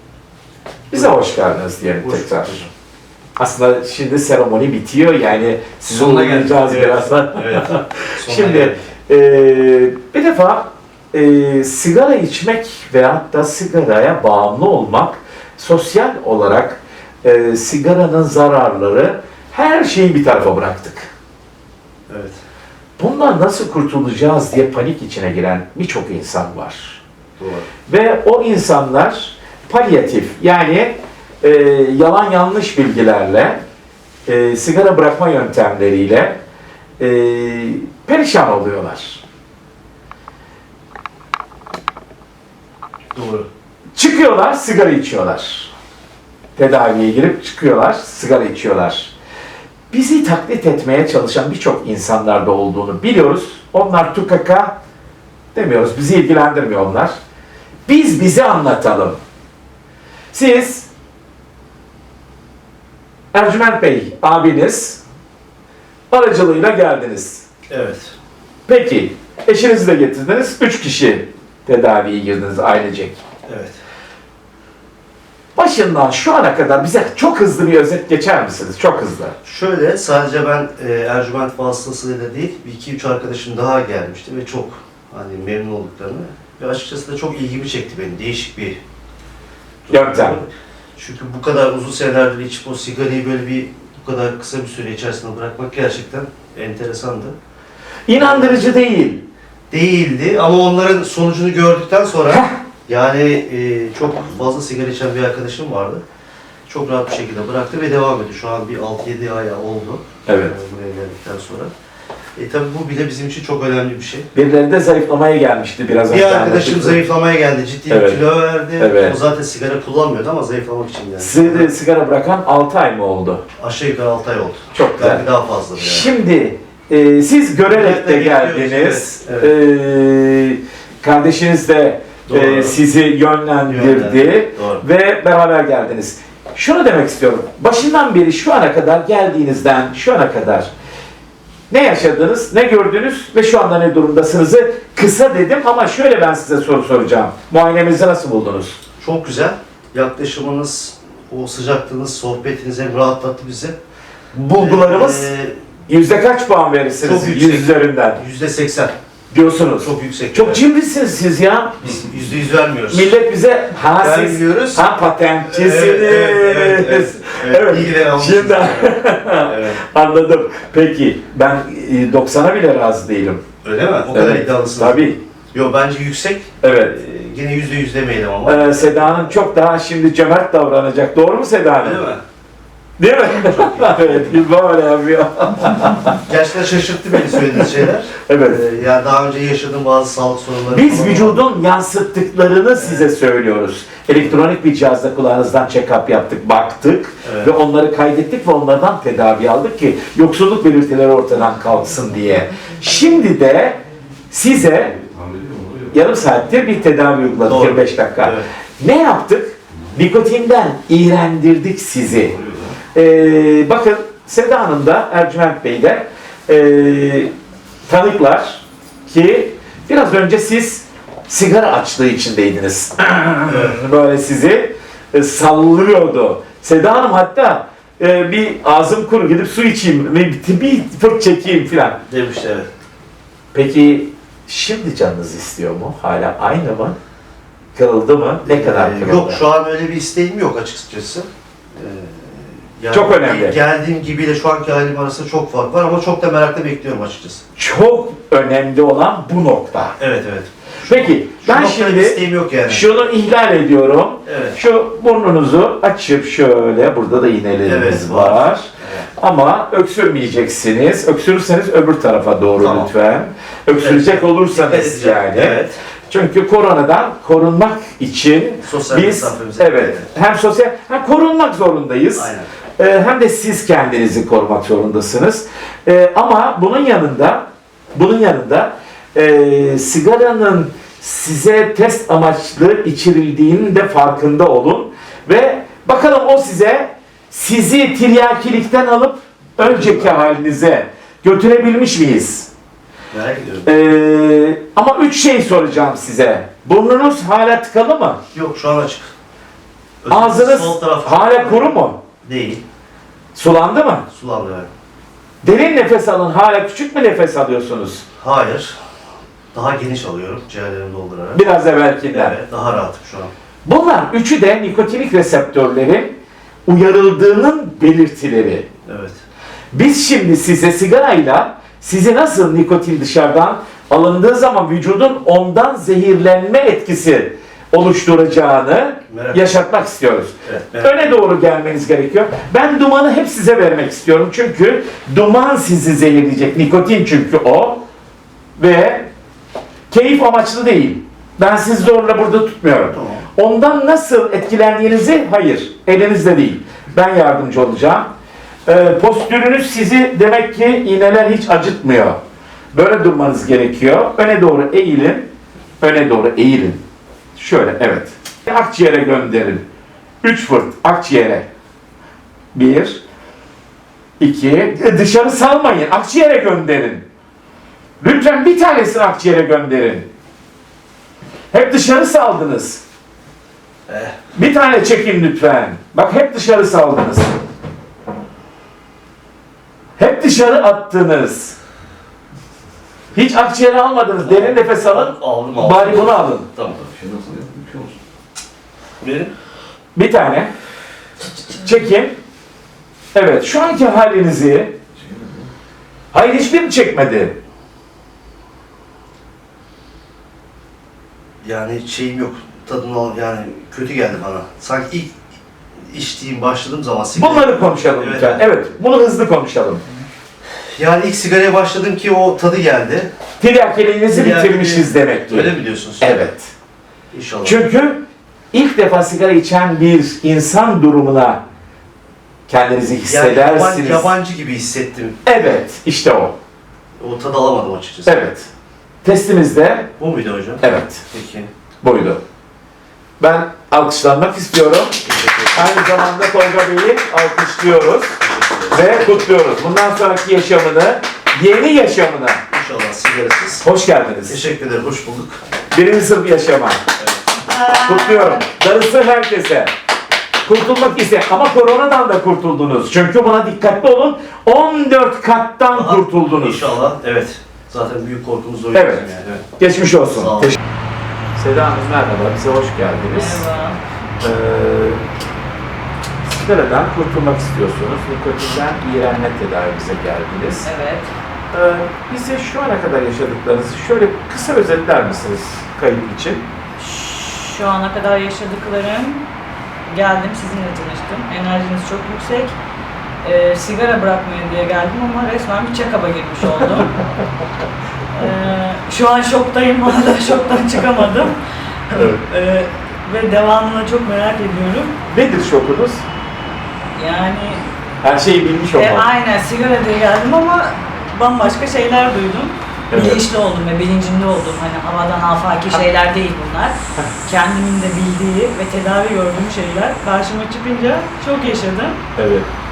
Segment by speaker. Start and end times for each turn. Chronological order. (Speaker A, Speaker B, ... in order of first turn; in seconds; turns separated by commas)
Speaker A: 0.9-2.7, Speaker B: 0.9-1.3, Speaker B: 2.0-2.7, Speaker A: 3.4-21.1, Speaker B: 5.9-8.8, Speaker B: 22.1-22.4, Speaker A: 23.0-27.0, Speaker B: 27.4-27.7, Speaker A: 27.9-33.6, Speaker A: 34.3-36.4, Speaker A: 37.0-39.2, Speaker B: 43.1-43.5, Speaker A: 44.0-45.7, Speaker A: 46.6-49.1, Speaker A: 49.9-54.8, Speaker A: 55.5-57.2, Speaker A: 57.9-59.2, Speaker A: 60.3-60.9, Speaker A: 63.3-65.0, Speaker A: 66.1-67.5, Speaker B: 67.7-68.2, Speaker A: 68.7-73.2, Speaker B: 73.5-73.8, Speaker A: 75.6-79.3, Speaker B: 79.4-88.8, Speaker B: 89.9-97.4, Speaker A: 89.9-90.4, Speaker A: 98.1-99.3, Speaker B: 98.1-98.7, Speaker B: 99.7-106.0, Speaker A: 102.3-102.6, Speaker B: 106.7-111.7, Speaker A: 110.3-110.5, Speaker B: 112.4-114.3, Speaker A: 114.3-117.0, Speaker B: 116.1-121.7, Speaker A: 117.9-118.2, Speaker A: 118.8-119.2, Speaker A: 121.2-123.5, Speaker B: 123.6-126.1, Speaker A: 124.7-125.2, Speaker A: 125.8-140.7, Speaker B: 127.7-129.5, Speaker B: 132.3-132.8, Speaker B: 133.7-134.8, Speaker A: 141.7-148.8, Speaker B: 149.0-153.8, Speaker A: 154.3-155.3, Speaker B: 154.5-155.6, Speaker A: 155.9-158.2, Speaker B: 157.0-159.0, Speaker A: 159.3-161.9, Speaker B: 159.8-160.6, Speaker B: 161.8-163.2, Speaker A: 162.9-173.4, Speaker B: 164.0-164.9, Speaker B: 165.5-169.8, Speaker B: 173.6-179.3, Speaker A: 174.1-175.2, Speaker A: 176.6-177.0, Speaker A: 178.4-182.1, Speaker B: 181.8-182.2, Speaker A: 183.0-186.2, Speaker B: 183.3-184.4, Speaker B: 186.2-191.5, Speaker A: 188.2-188.6, Speaker A: 190.7-204.9, Speaker B: 192.7-193.1, Speaker B: 197.2-197.5, Speaker C: 204.7-206.0, Speaker A: 205.9-212.4, Speaker B: 207.4-208.5, Speaker C: 212.2-212.8, Speaker A: 212.9-217.3, Speaker A: 217.9-232.0, Speaker B: 223.5-223.8, Speaker B: 232.1-232.7, Speaker A: 233.5-237.0, Speaker A: 237.8-239.4, Speaker B: 238.4-247.4, Speaker A: 242.9-243.6, Speaker A: 247.6-250.0, Speaker B: 250.0-252.9, Speaker A: 250.8-292.5, Speaker B: 254.3-254.6, Speaker B: 257.7-259.1, Speaker B: 262.6-262.9, Speaker B: 263.8-265.8, Speaker B: 268.6-270.1, Speaker B: 272.2-272.5, Speaker B: 289.6-290.1, Speaker B: 293.1-293.7, Speaker A: 293.6-298.2, Speaker B: 298.3-299.1, Speaker B: 300.0-302.6, Speaker A: 300.1-302.0, Speaker A: 303.4-304.1, Speaker B: 304.1-304.7, Speaker A: 305.4-308.1, Speaker B: 308.2-308.8, Speaker B: 309.5-311.4, Speaker A: 311.3-312.4, Speaker B: 312.1-313.3, Speaker A: 313.6-318.7, Speaker B: 318.9-319.2, Speaker A: 319.7-337.9, Speaker B: 329.1-329.4, Speaker B: 330.4-331.1, Speaker A: 338.6-339.1, Speaker A: 339.9-348.1, Speaker B: 342.9-343.2, Speaker A: 348.7-352.2, Speaker A: 352.7-356.8, Speaker A: 357.4-359.7, Speaker A: 360.2-361.5, Speaker A: 362.5-363.0, Speaker A: 364.2-367.1, Speaker A: 368.0-370.1, Speaker A: 371.5-372.8, Speaker B: 373.9-374.2, Speaker A: 374.4-377.4, Speaker A: 380.0-381.6, Speaker A: 383.1-386.5, Speaker B: 384.2-386.8, Speaker C: 386.7-388.0, Speaker B: 389.0-389.3, Speaker A: 389.9-390.5, Speaker A: 391.5-392.2, Speaker A: 393.1-394.8, Speaker C: 394.9-395.5, Speaker A: 396.1-397.4, Speaker B: 401.4-405.2, Speaker B: 405.8-408.5, Speaker A: 407.1-409.8, Speaker B: 410.7-413.1, Speaker A: 413.4-416.5, Speaker B: 414.1-416.3, Speaker B: 417.1-417.6, Speaker A: 417.4-421.4, Speaker A: 422.5-424.1, Speaker B: 423.1-425.2, Speaker A: 425.2-426.4, Speaker B: 427.0-428.3, Speaker A: 428.1-428.5, Speaker A: 429.0-429.9, Speaker B: 430.0-431.5, Speaker A: 430.6-431.0, Speaker A: 431.8-432.2, Speaker A: 433.2-442.4, Speaker B: 435.1-435.7, Speaker B: 438.3-439.3, Speaker B: 442.5-443.7, Speaker A: 443.6-444.4, Speaker B: 444.3-445.4, Speaker A: 445.7-446.9, Speaker B: 447.0-447.2, Speaker D: 447.4-448.5, Speaker A: 447.8-449.7, Speaker A: 450.4-456.8, Speaker B: 455.7-459.5, Speaker A: 458.7-460.6, Speaker B: 460.1-460.6, Speaker A: 461.4-463.4, Speaker D: 463.1-463.8, Speaker A: 464.2-465.0, Speaker A: 466.2-470.7, Speaker D: 470.6-471.1, Speaker A: 471.5-476.4, Speaker D: 476.8-479.3, Speaker D: 479.9-482.5, Speaker D: 483.2-487.0, Speaker D: 488.1-491.4, Speaker D: 491.9-495.0, Speaker A: 495.1-496.1, Speaker D: 497.0-497.7, Speaker A: 498.0-499.1, Speaker D: 498.8-512.0, Speaker A: 502.9-503.2, Speaker A: 512.1-512.5